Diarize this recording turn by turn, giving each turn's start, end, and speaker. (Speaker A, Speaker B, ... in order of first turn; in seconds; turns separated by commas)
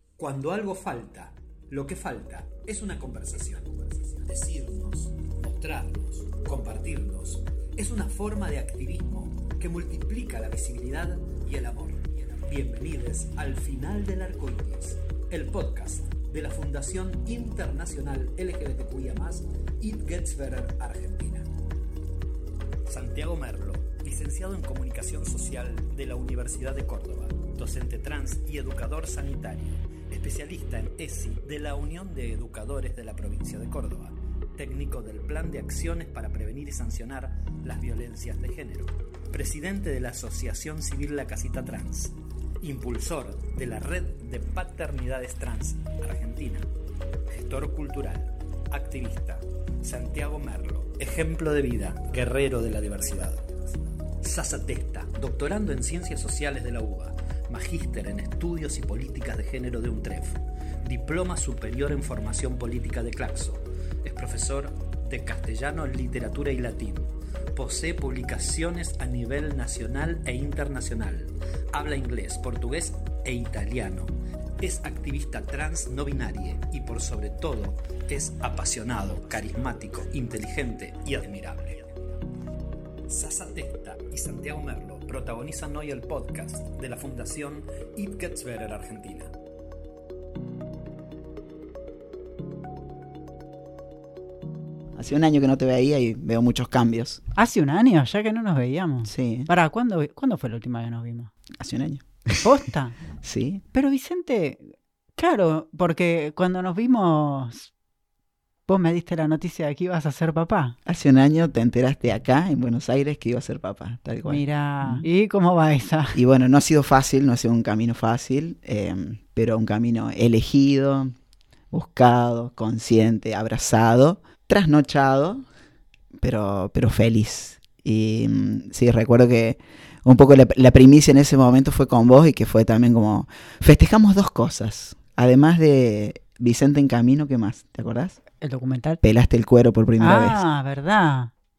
Speaker A: 0.2-21.5, Speaker A: 22.9-46.7, Speaker A: 47.3-53.5, Speaker A: 54.2-81.9, Speaker A: 83.1-89.3, Speaker B: 95.0-97.2, Speaker C: 97.3-101.3, Speaker B: 99.0-99.5, Speaker B: 101.6-102.5, Speaker C: 102.4-103.0, Speaker B: 103.2-103.6, Speaker C: 103.7-107.7, Speaker C: 108.7-110.8, Speaker B: 110.9-115.0, Speaker C: 114.3-116.2, Speaker B: 116.1-121.1, Speaker B: 121.7-125.5, Speaker B: 126.2-138.2, Speaker C: 138.4-139.0, Speaker B: 139.0-140.4, Speaker C: 140.0-141.3